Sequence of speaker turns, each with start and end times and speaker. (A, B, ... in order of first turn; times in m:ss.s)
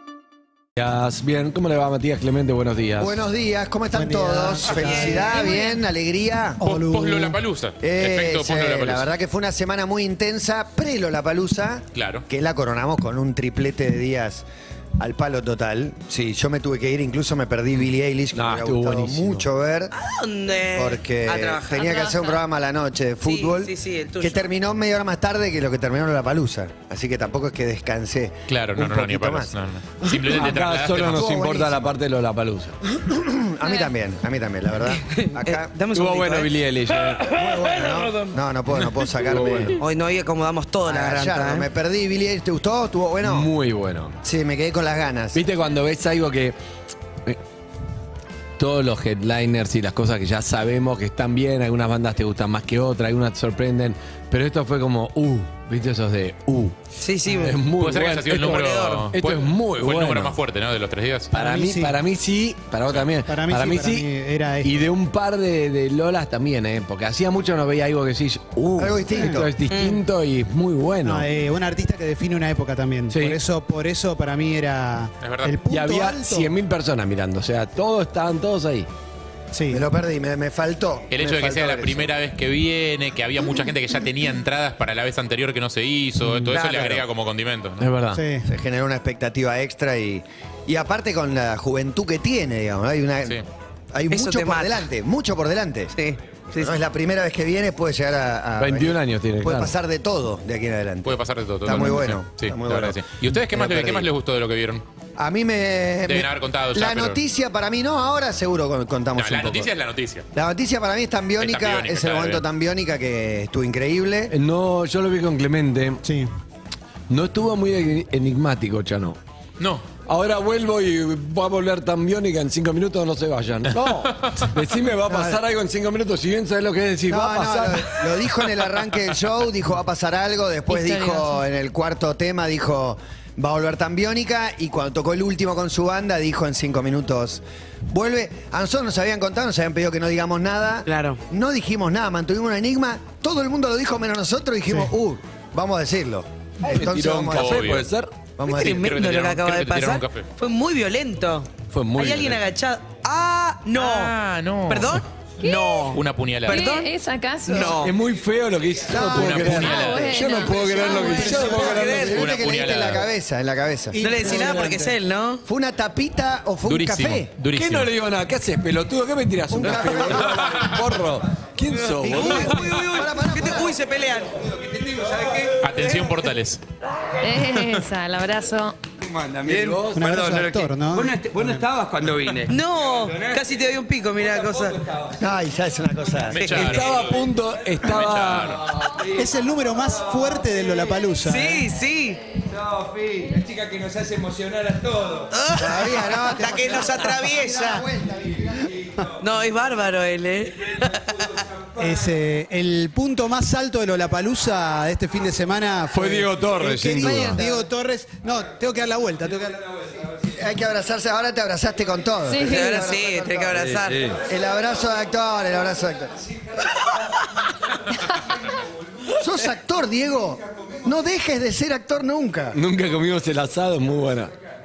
0:00.8-0:03.2 A
0:03.0-0:06.6 B
0:03.9-0:05.5 C
0:05.4-0:05.7 D
0:06.6-0:07.4 C
0:06.6-0:09.1 E
0:07.8-0:14.4 B
0:11.9-0:12.2 E
0:15.0-0:19.9 B
0:18.3-0:19.4 A
0:19.9-0:22.4 F
0:20.7-0:29.6 B
0:23.2-0:24.4 F
0:28.5-0:31.2 E
0:30.0-0:32.7 A
0:31.0-0:31.9 B
0:32.9-0:35.7 B
0:33.6-0:33.9 D
0:35.0-0:36.5 F
0:35.9-0:37.3 A
0:37.2-0:39.8 B
0:39.2-0:39.8 A
0:39.8-0:41.7 F
0:40.8-0:43.5 B
0:43.2-0:44.2 A
0:44.2-0:45.4 B
0:45.3-0:46.6 A
0:48.6-0:56.8 A
0:57.0-0:57.5 F
0:57.3-0:57.6 C
0:57.4-1:00.4 A
0:57.7-1:01.3 E
0:58.3-0:59.1 F
1:01.3-1:02.0 C
1:01.3-1:04.1 A
1:03.2-1:04.9 C
1:04.6-1:11.3 A
1:08.8-1:09.5 B
1:09.1-1:09.4 C
1:09.7-1:10.0 F
1:11.0-1:16.5 C
1:13.1-1:13.4 A
1:15.2-1:15.6 E
1:15.7-1:18.9 A
1:19.5-1:19.8 C
1:19.7-1:22.1 B
1:21.1-1:27.9 E
1:26.2-1:26.5 A
1:26.4-1:27.0 F
1:27.8-1:28.2 A
1:28.1-1:28.5 C
1:28.5-1:36.0 B
1:34.1-1:34.8 F
1:36.0-1:36.8 F
1:36.5-1:44.1 B
1:38.6-1:39.7 A
1:41.0-1:44.8 E
1:45.2-1:49.7 B
1:46.1-1:47.2 E
1:49.2-1:50.2 E
1:50.3-1:54.3 B
1:51.4-1:52.4 E
1:54.3-1:56.0 A
1:57.1-1:59.2 A
1:59.6-1:59.8 E
2:00.0-2:08.3 A
2:05.1-2:05.4 B
2:07.1-2:27.8 B
2:10.7-2:11.4 D
2:20.9-2:21.2 F
2:26.6-2:28.1 A
2:27.3-2:27.8 E
2:28.4-2:28.8 B
2:28.4-2:34.1 F
2:28.6-2:30.3 E
2:31.7-2:32.4 A
2:33.7-2:34.9 E
2:34.7-2:36.9 F
2:35.4-2:35.9 D
2:35.9-2:36.6 E
2:36.5-2:37.8 D
2:37.4-2:38.0 F
2:37.8-2:42.1 A
2:38.9-2:40.4 B
2:39.1-2:40.1 E
2:39.6-2:41.0 D
2:40.5-2:42.1 C
2:40.6-2:42.2 F
2:41.6-2:44.0 B
2:42.1-2:43.1 E
2:43.9-2:44.9 C
2:44.0-2:45.4 F
2:45.4-2:47.3 B
2:46.6-2:47.9 E
2:47.5-2:52.7 A
2:49.5-2:50.6 B
2:52.0-2:54.4 F
2:52.0-2:53.7 B
2:54.4-2:56.1 G
2:55.6-2:56.6 E
2:57.2-2:58.8 D
2:59.0-3:05.4 G
2:59.5-3:00.1 A
2:59.9-3:01.6 C
3:02.5-3:04.8 F
3:05.2-3:06.8 B
3:06.0-3:10.4 G
3:06.3-3:07.1 E
3:06.5-3:08.6 A
3:07.8-3:08.6 E
3:09.2-3:11.6 C
3:10.4-3:12.3 F
3:12.4-3:15.4 G
3:15.3-3:17.8 F
3:15.5-3:18.6 B
3:18.4-3:19.2 G
3:19.2-3:21.1 F
3:20.8-3:22.1 G
3:21.8-3:29.6 C
3:25.9-3:27.4 A
3:30.3-3:36.2 B
3:32.3-3:32.8 D
3:32.4-3:34.0 F
3:33.6-3:33.9 G
3:33.9-3:34.2 A
3:39.1-3:42.6 B
3:42.5-3:44.3 A